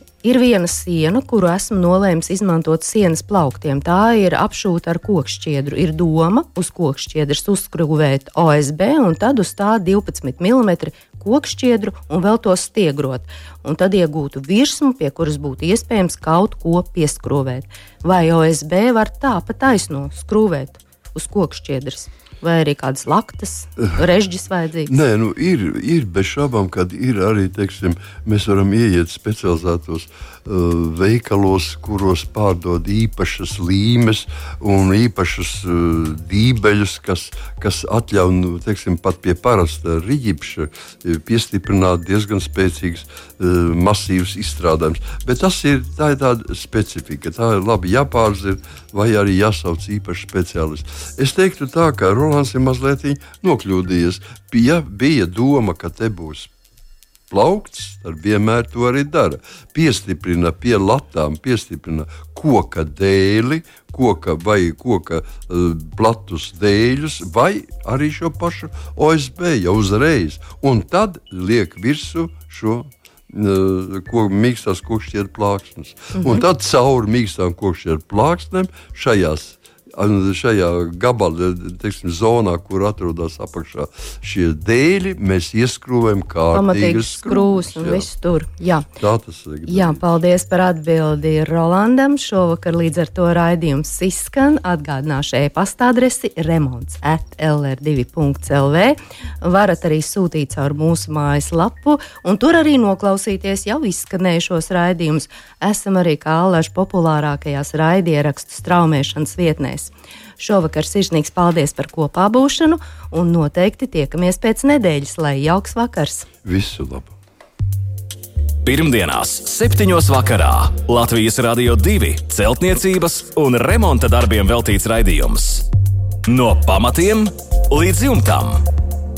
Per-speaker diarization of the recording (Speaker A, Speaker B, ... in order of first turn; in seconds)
Speaker A: 0.2-24.9, 76.1-76.4, 86.5-88.9, 89.7-116.3
Speaker B: 24.9-56.5, 57.3-88.1, 89.0-90.1, 116.4-117.1
Speaker C: 118.6-125.7, 126.3-128.6